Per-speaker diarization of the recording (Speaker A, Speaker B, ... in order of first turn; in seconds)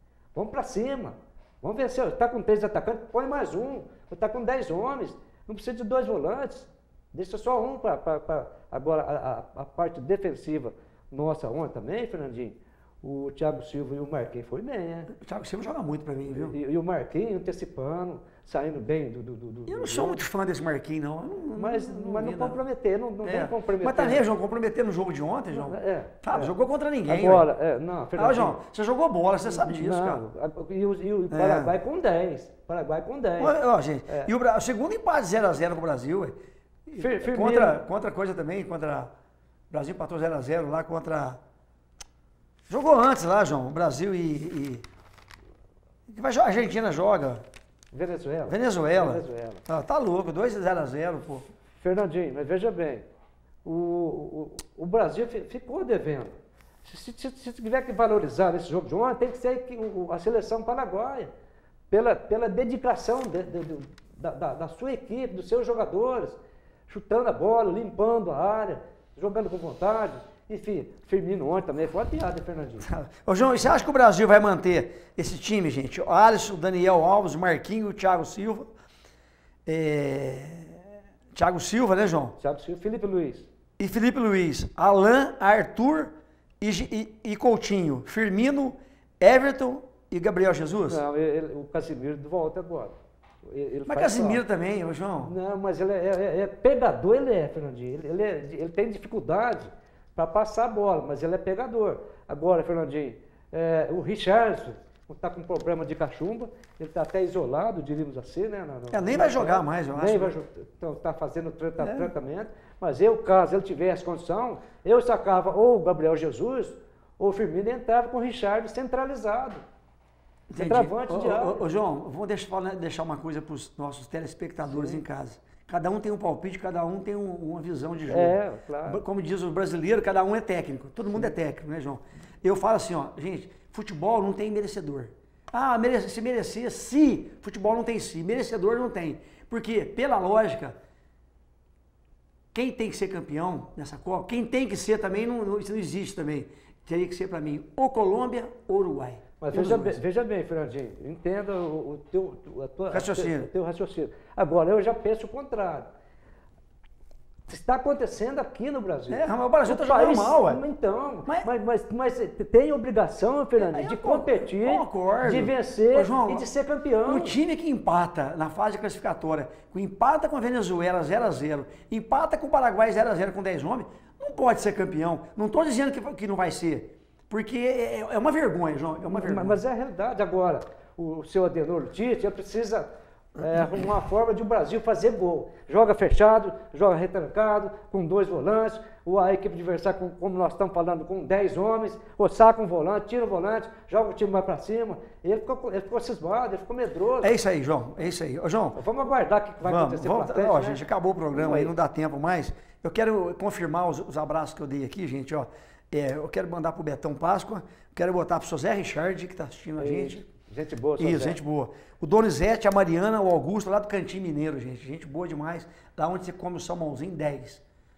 Speaker A: 0.3-15.1, 16.3-20.2, 21.6-24.3, 25.5-26.5, 27.1-28.6, 29.5-33.6, 37.0-37.8, 47.9-49.6, 51.8-53.0, 53.6-61.3, 61.9-66.4, 66.9-72.9, 82.4-83.5, 90.9-94.4, 95.2-119.6, 120.5-121.7, 124.7-125.0, 128.1-129.0, 149.4-155.9, 157.5-167.3, 179.1-197.3, 198.8-200.8, 201.3-201.7, 209.8-211.4
Speaker B: 15.1-16.6, 19.7-22.6, 23.2-27.5, 28.2-30.2, 31.3-31.8, 33.4-39.1, 39.7-41.4, 42.7-44.8, 46.1-47.4, 48.5-51.5, 72.8-78.7, 79.7-82.3, 83.8-91.0, 93.9-95.3, 108.9-110.3, 111.8-112.1, 120.5-140.8, 142.5-150.0, 152.9-153.5, 159.1-160.6, 163.6-166.5, 167.1-179.6, 197.2-198.8, 199.6-210.2, 211.0-217.6